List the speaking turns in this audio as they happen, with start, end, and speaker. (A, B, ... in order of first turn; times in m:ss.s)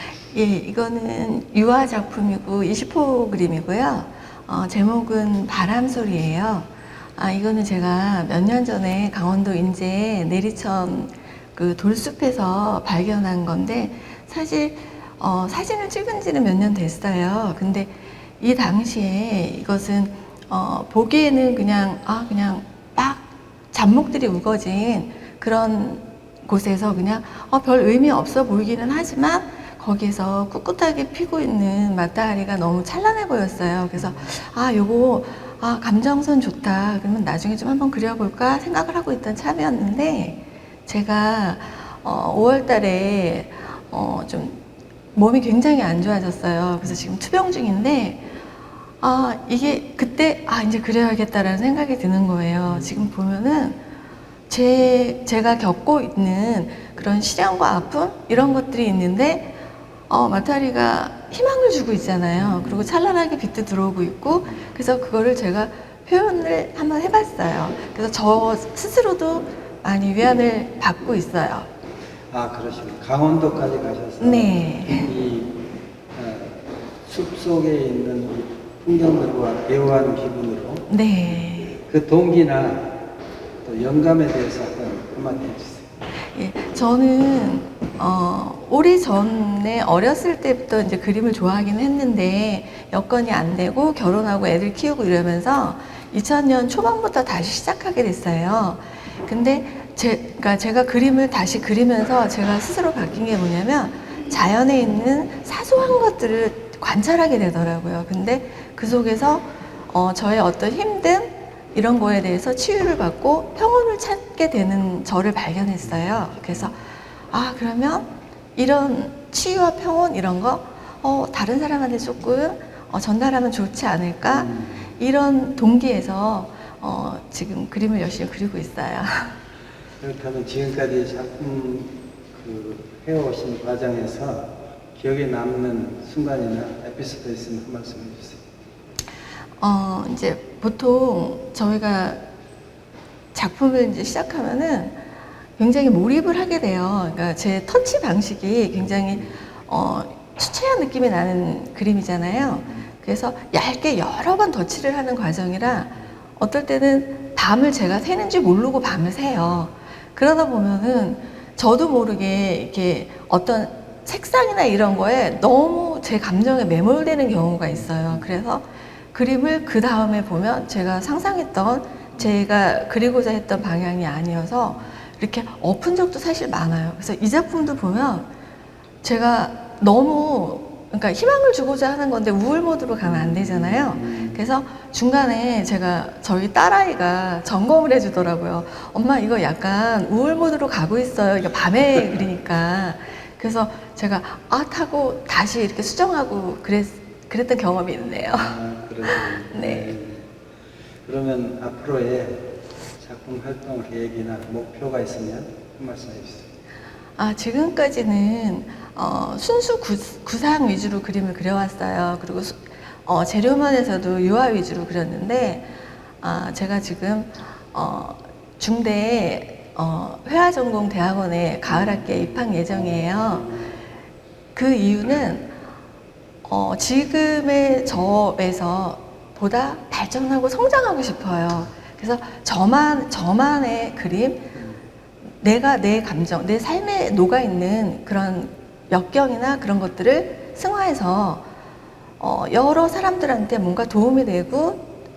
0:00.3-0:44.6 A
0:45.2-0:48.2 A
0:49.0-0:53.8 A
0:52.7-0:53.1 B
0:54.5-1:11.7 A
1:02.4-1:02.9 B
1:12.3-1:23.0 B
1:14.2-1:15.1 A
1:20.9-1:21.8 A
1:23.6-1:25.9 B
1:26.4-2:09.3 A
1:56.2-1:56.7 B
2:04.3-2:04.9 B
2:10.0-2:18.4 B
2:19.6-2:22.2 A
2:23.3-2:25.0 A
2:25.6-2:58.3 A
2:47.7-2:48.3 B
2:59.0-3:20.0 A
3:03.0-3:04.4 B
3:18.3-3:20.3 B
3:21.0-3:26.5 B
3:27.2-3:43.6 A
3:41.7-3:43.7 B
3:44.6-3:45.5 A
3:46.4-3:54.6 A
3:55.4-4:01.5 A
4:02.2-4:04.9 A